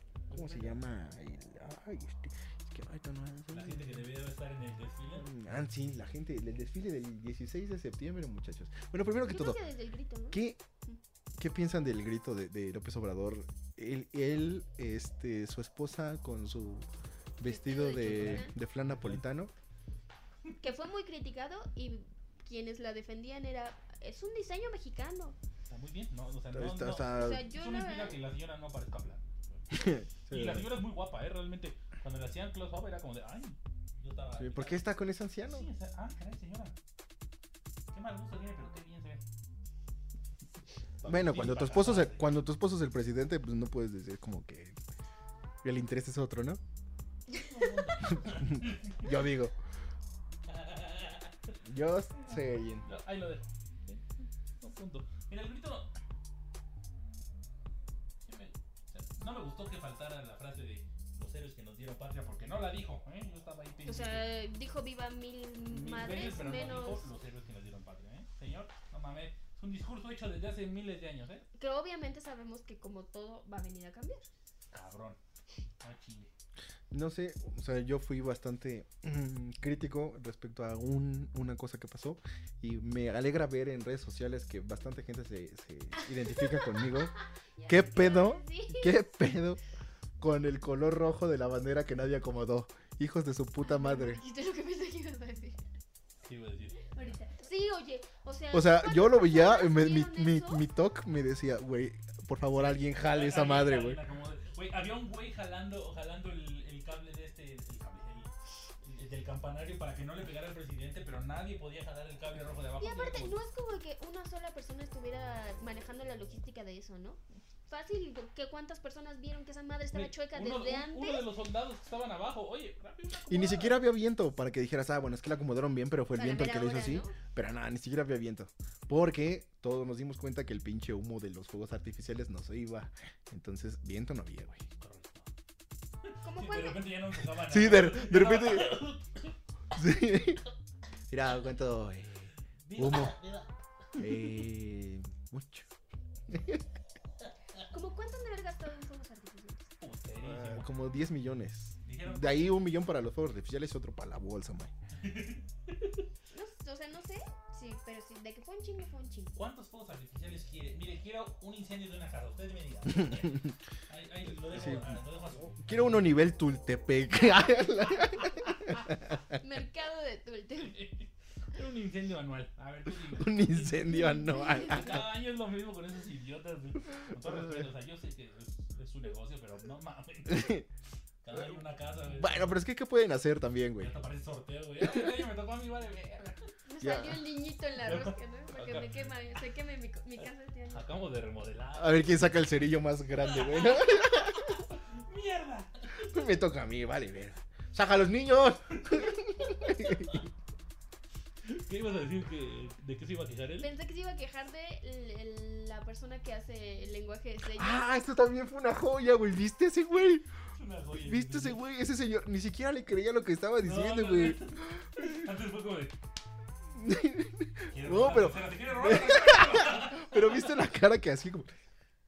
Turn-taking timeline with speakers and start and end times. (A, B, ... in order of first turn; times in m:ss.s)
0:00.3-0:00.8 A
0:00.3-0:04.0 B
0:03.5-0:05.3 A
0:05.2-0:09.6 B
0:09.2-0:11.0 C
0:10.3-0:10.6 B
0:11.4-0:16.9 B
0:17.4-0:19.5 B
0:17.4-0:18.6 C
0:17.8-0:19.2 A
0:20.6-0:25.4 C
0:25.7-0:29.7 A
0:26.5-0:27.5 B
0:27.1-0:28.2 C
0:29.7-0:30.7 B
0:30.2-0:34.9 A
0:34.4-0:35.7 B
0:35.5-0:36.8 A
0:37.9-0:39.2 A
0:41.0-0:42.3 A
0:41.0-0:44.8 B
0:45.6-0:46.6 B
0:47.3-0:49.1 A
0:48.1-0:49.6 B
0:50.5-0:51.4 A
0:51.6-0:52.9 B
0:52.8-0:55.9 A
0:58.2-1:04.3 A
1:03.9-1:07.1 C
1:05.7-1:11.4 A
1:11.6-1:14.3 C
1:14.7-1:15.2 A
1:15.8-1:16.3 A
1:16.9-1:27.2 B
1:26.2-1:29.1 C
1:27.7-1:29.6 B
1:30.2-1:34.2 B
1:33.6-1:35.7 C
1:36.2-1:36.8 A
1:36.9-1:40.7 C
1:38.5-1:44.0 B
1:42.5-1:48.3 A
1:48.8-1:53.4 A
1:52.8-2:01.3 C
1:59.9-2:03.8 A
2:03.3-2:14.7 B
2:06.2-2:07.2 C
2:14.8-2:15.3 A
2:16.0-2:19.3 A
2:16.2-2:16.9 C
2:17.3-2:18.8 B
2:19.7-2:20.4 B
2:21.1-2:23.2 B
2:22.6-2:24.0 A
2:24.0-2:25.7 B
2:26.3-2:26.6 B
2:27.7-2:29.7 C
2:29.8-2:30.7 A
2:30.2-2:34.7 B
2:31.8-2:32.6 A
2:34.9-2:36.0 A
2:36.3-2:39.4 C
2:39.4-2:46.1 A
2:44.5-2:48.8 B
2:49.4-2:50.8 C
2:50.6-3:00.6 A
2:53.0-2:55.1 B
2:54.3-2:54.8 C
3:00.3-3:00.7 B
3:01.2-3:02.6 A
3:02.0-3:03.9 B
3:03.8-3:06.5 A
3:06.6-3:10.9 C
3:06.8-3:07.2 B
3:07.8-3:09.1 A
3:10.2-3:12.6 A
3:11.8-3:14.6 B
3:13.2-3:16.1 A
3:16.0-3:20.2 B
3:21.4-3:23.7 A
3:23.6-3:27.8 C
3:27.5-3:30.2 B
3:30.6-3:31.6 A
3:30.9-3:35.0 B
3:33.6-3:36.0 A
3:36.7-3:41.5 B
3:37.7-3:40.6 A